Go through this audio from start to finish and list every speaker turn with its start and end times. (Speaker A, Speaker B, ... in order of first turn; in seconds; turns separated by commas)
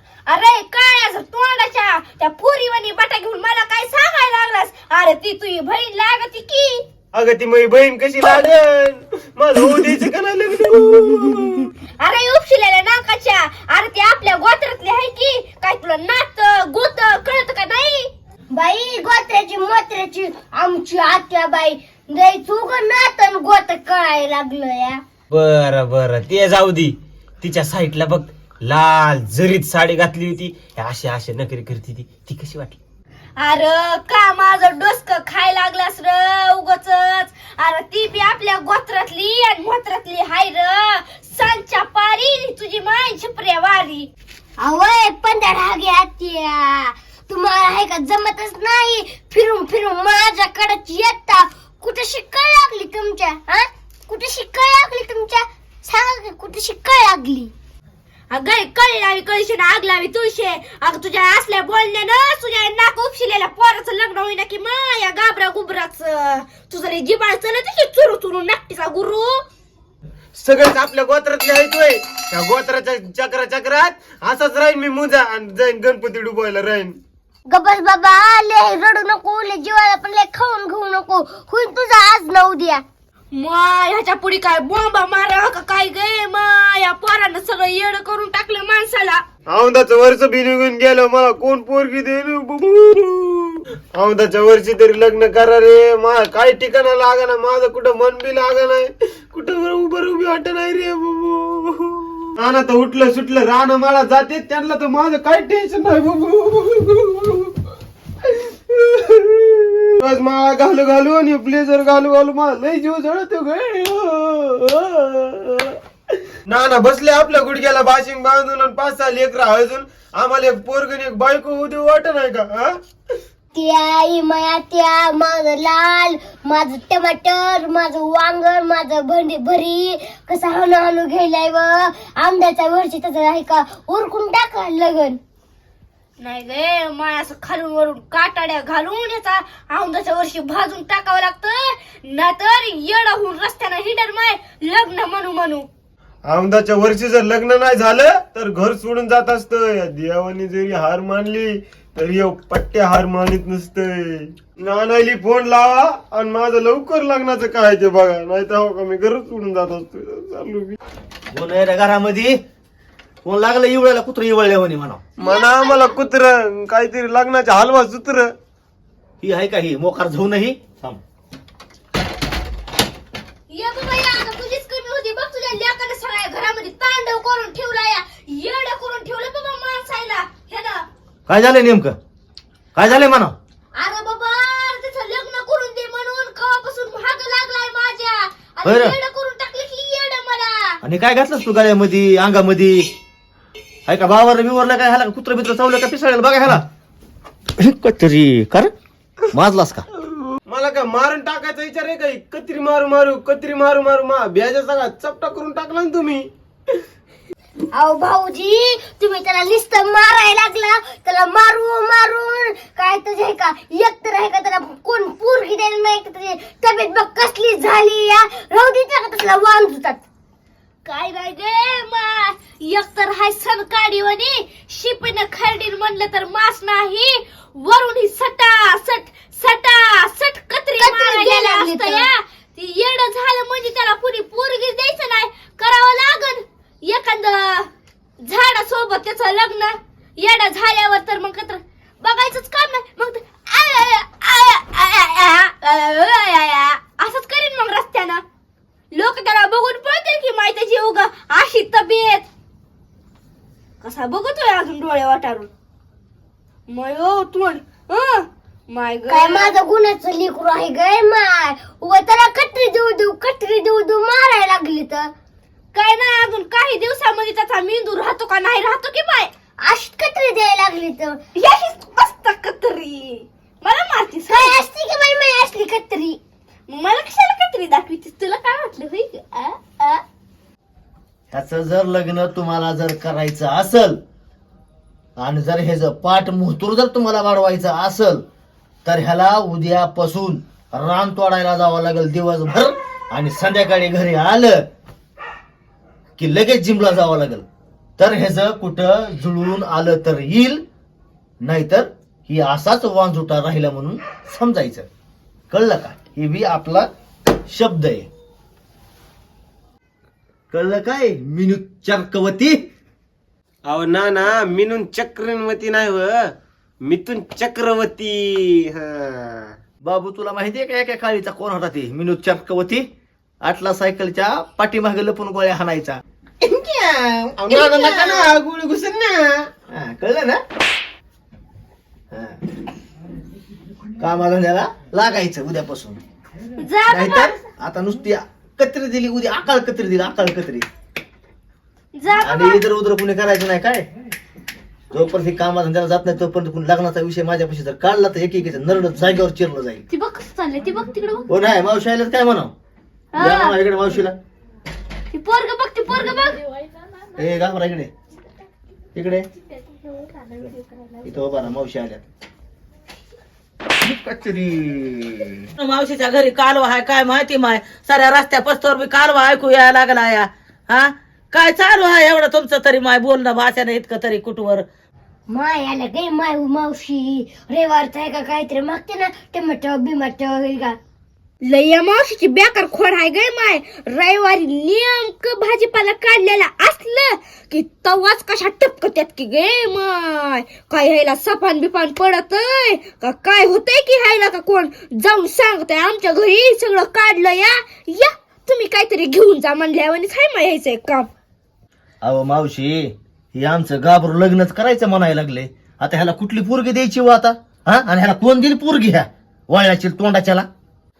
Speaker A: 0.3-6.8, Speaker B: 7.1-11.7, Speaker A: 12.0-18.1, Speaker C: 18.5-25.0, Speaker B: 25.3-32.8, Speaker A: 33.4-44.1, Speaker C: 44.6-57.5, Speaker A: 58.3-69.4, Speaker B: 70.3-77.0, Speaker C: 77.5-82.8, Speaker A: 83.3-89.2, Speaker B: 89.5-107.6, Speaker B: 108.2-115.8, Speaker B: 116.5-122.8, Speaker C: 123.5-135.2, Speaker A: 136.2-145.7, Speaker B: 146.2-160.8, Speaker D: 161.3-162.4, Speaker D: 163.2-165.0, Speaker B: 165.2-168.3, Speaker A: 165.2-165.9, Speaker D: 169.2-171.0, Speaker A: 173.5-180.8, Speaker D: 181.3-182.0, Speaker D: 182.7-183.3, Speaker A: 183.8-190.8, Speaker D: 188.6-189.0, Speaker D: 190.8-192.9, Speaker D: 193.9-196.6, Speaker D: 197.6-198.7, Speaker D: 199.3-199.9, Speaker B: 200.4-206.3, Speaker C: 207.7-220.0, Speaker A: 220.8-237.7, Speaker C: 230.8-232.1, Speaker A: 238.2-248.2, Speaker A: 248.9-252.3, Speaker A: 253.8-255.5, Speaker A: 256.7-259.5, Speaker C: 259.1-265.1, Speaker A: 265.7-269.3, Speaker C: 269.6-271.2, Speaker A: 271.4-274.6, Speaker C: 274.3-276.2, Speaker A: 276.7-280.0, Speaker D: 281.3-284.0, Speaker D: 285.2-288.2, Speaker D: 288.8-294.7, Speaker D: 296.2-297.4, Speaker D: 298.0-300.6, Speaker D: 301.4-304.9, Speaker D: 305.5-306.9, Speaker D: 307.5-308.1, Speaker D: 310.5-312.6, Speaker B: 313.6-319.5, Speaker D: 319.8-322.9, Speaker D: 323.4-327.4, Speaker B: 327.4-329.5, Speaker A: 327.5-328.4, Speaker D: 329.7-330.4, Speaker D: 332.1-332.4, Speaker D: 334.0-336.0, Speaker A: 336.6-337.4, Speaker D: 336.9-340.7, Speaker A: 341.9-342.6, Speaker D: 342.2-343.9, Speaker D: 344.9-349.8, Speaker A: 349.9-351.3, Speaker D: 351.3-352.5, Speaker A: 353.1-353.6, Speaker D: 353.2-354.1, Speaker A: 355.1-356.4, Speaker D: 357.2-357.9, Speaker D: 358.9-359.3, Speaker A: 360.0-360.4, Speaker D: 361.0-362.0, Speaker D: 363.8-365.5, Speaker E: 365.6-374.6, Speaker C: 375.3-380.8, Speaker A: 381.4-401.1, Speaker D: 402.0-410.5